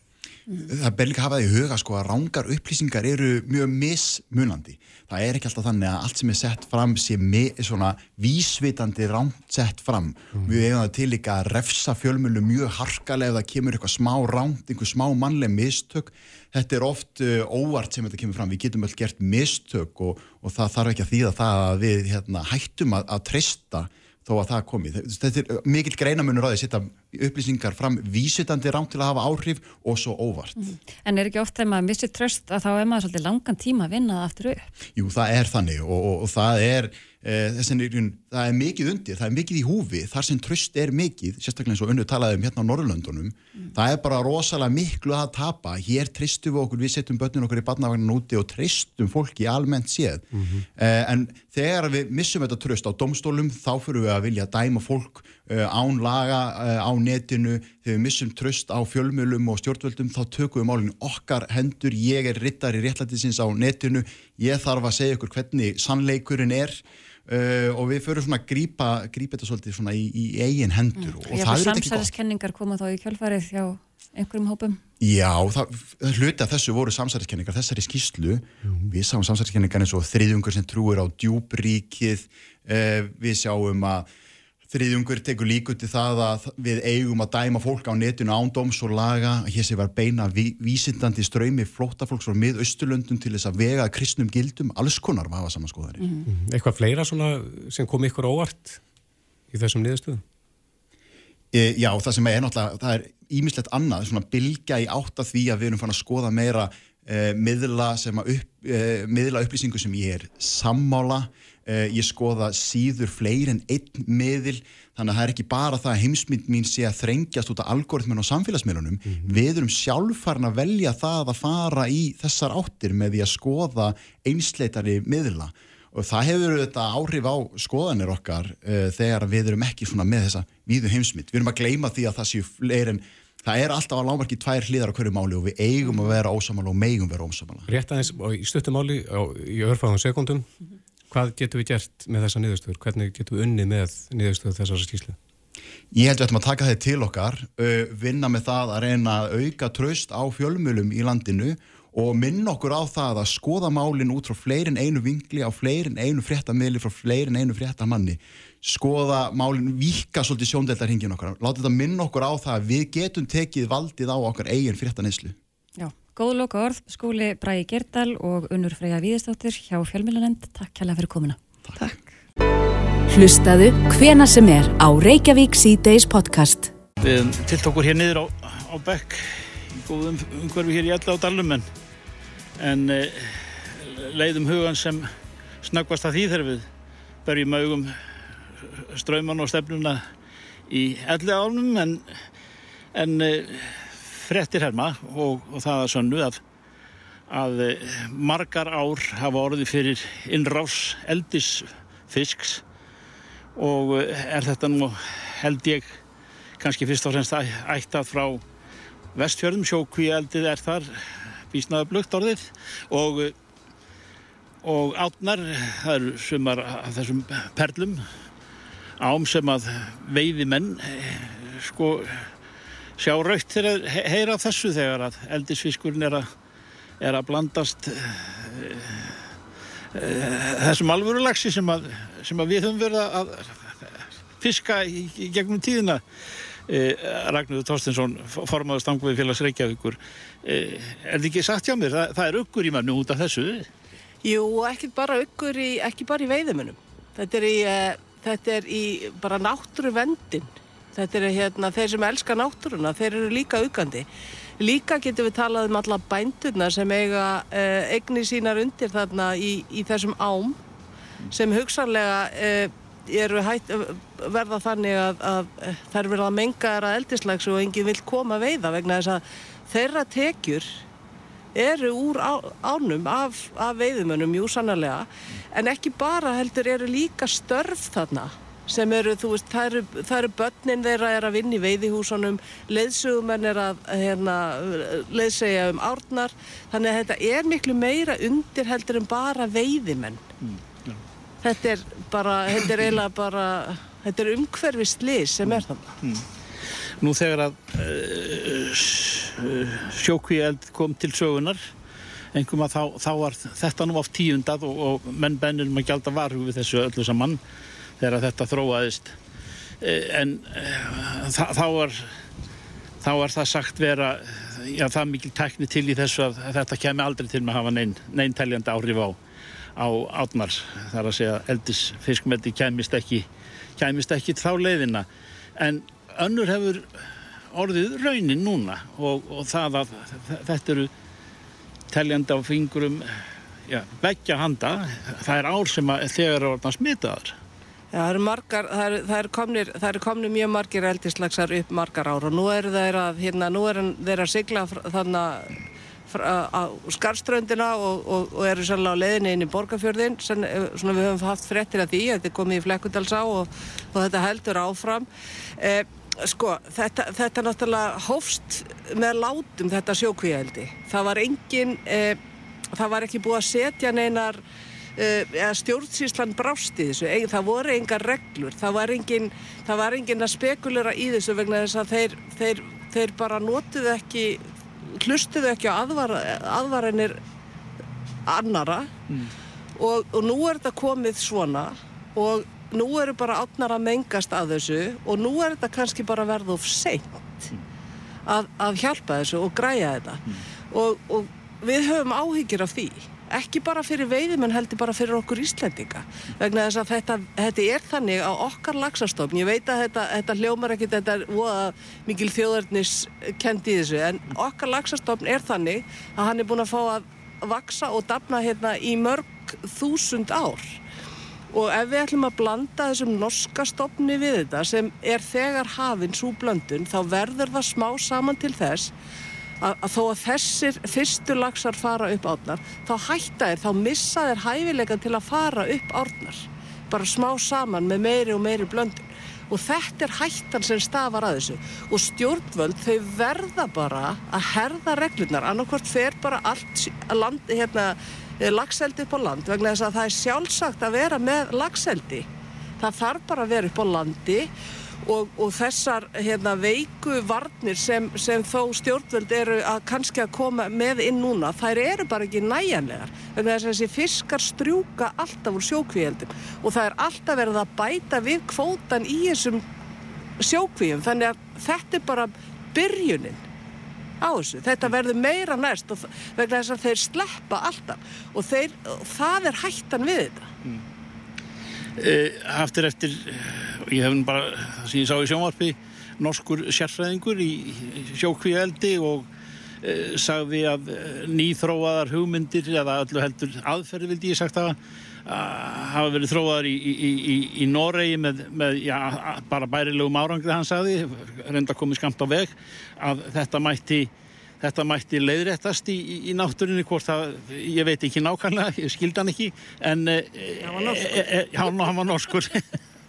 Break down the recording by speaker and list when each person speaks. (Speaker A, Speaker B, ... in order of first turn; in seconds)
Speaker A: 0.7-30.6, 35.0-72.1, 75.0-84.1, 84.7-96.0, 101.5-137.7, 145.9-165.3
Speaker B: 30.6-34.7, 71.0-74.8, 96.0-96.2, 165.8-171.4
Speaker C: 50.3-50.6, 96.2-98.8, 99.5-100.2, 119.1-119.4, 137.7-140.5, 141.1-145.2
Speaker D: 173.1-176.7
Speaker E: 177.0-181.6, 182.6-185.1, 185.6-186.7, 187.2-188.0, 188.9-190.0, 190.7-192.0, 192.9-196.4, 197.3-202.6, 203.6-206.0, 206.6-208.4, 209.1-213.3, 214.6-218.0, 219.0-222.3, 223.0-226.3, 227.0-229.2, 229.9-236.0, 236.7-243.7, 290.4-291.0, 295.4-296.2, 297.0-301.6, 302.3-307.4, 308.0-309.1, 309.8-312.1, 313.0-319.2, 319.8-323.2, 323.8-325.1, 325.6-326.9, 327.5-330.9, 331.9-333.1, 333.7-337.3, 472.0-479.3, 479.8-494.1, 494.6-502.5
Speaker F: 244.2-254.1, 254.6-260.6, 261.3-270.7, 271.5-290.2, 291.4-295.9, 337.9-355.1, 355.6-362.2, 362.7-364.4, 365.0-377.2, 378.3-378.9, 379.8-387.3, 388.3-410.8, 411.5-418.9, 419.6-442.3, 442.8-444.5, 445.0-459.6, 460.4-463.4, 464.2-470.5